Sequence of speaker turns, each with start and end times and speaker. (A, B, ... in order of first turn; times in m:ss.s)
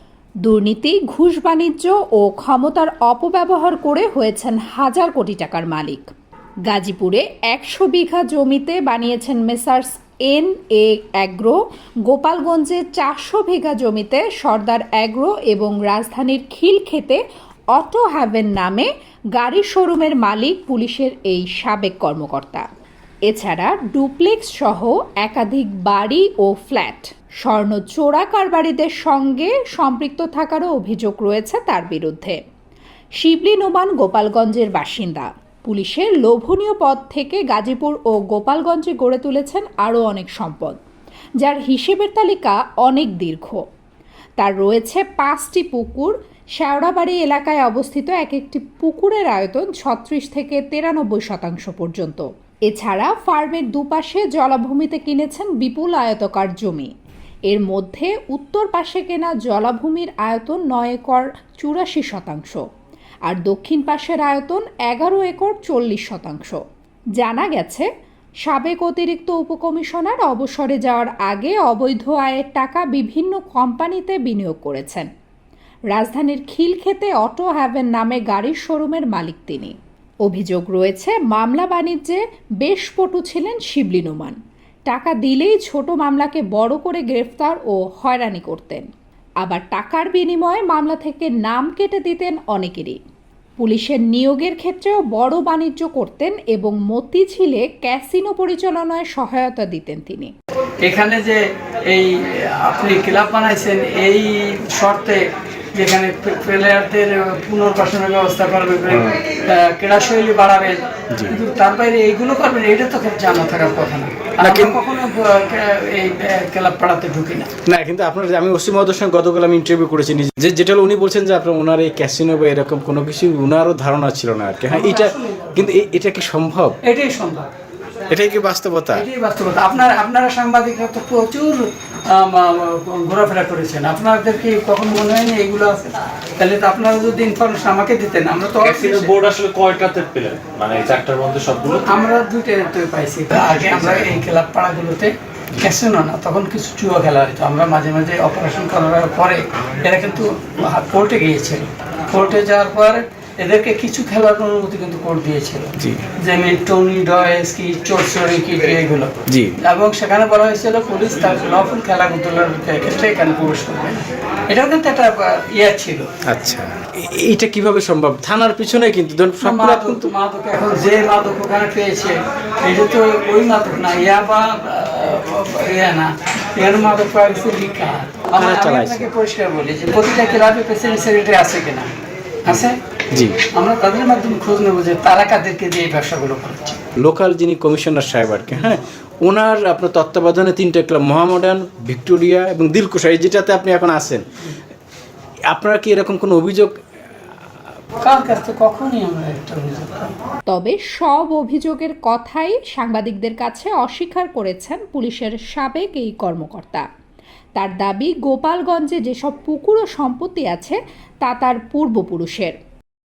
0:00.4-0:06.1 A
0:06.7-0:17.2 A
0:17.7-0:22.6 A
0:23.3-0:32.4 A
0:33.2-0:40.8 A
0:41.4-0:43.6 A
0:44.4-0:56.9 A
0:57.5-1:02.6 A
1:03.2-1:06.6 A
1:07.2-1:07.9 A
1:08.4-1:15.1 A
1:15.9-1:28.9 A
1:29.4-1:33.0 A
1:33.6-1:40.3 A
1:40.8-1:57.5 B
1:51.1-1:51.4 C
1:54.4-1:54.8 C
1:57.6-2:06.8 C
2:04.7-2:05.7 B
2:06.8-2:07.5 B
2:08.1-2:09.0 C
2:08.9-2:19.1 B
2:18.6-2:22.0 D
2:21.8-2:39.1 B
2:35.8-2:36.1 C
2:39.3-2:39.6 C
2:39.6-2:46.1 B
2:46.2-2:50.0 C
2:49.4-3:01.9 B
2:58.4-2:59.0 C
3:02.4-3:02.8 B
3:02.5-3:03.4 C
3:03.4-3:06.8 B
3:07.0-3:14.2 C
3:15.5-3:16.7 C
3:18.0-3:20.1 B
3:20.5-3:26.8 A
3:27.6-3:32.6 A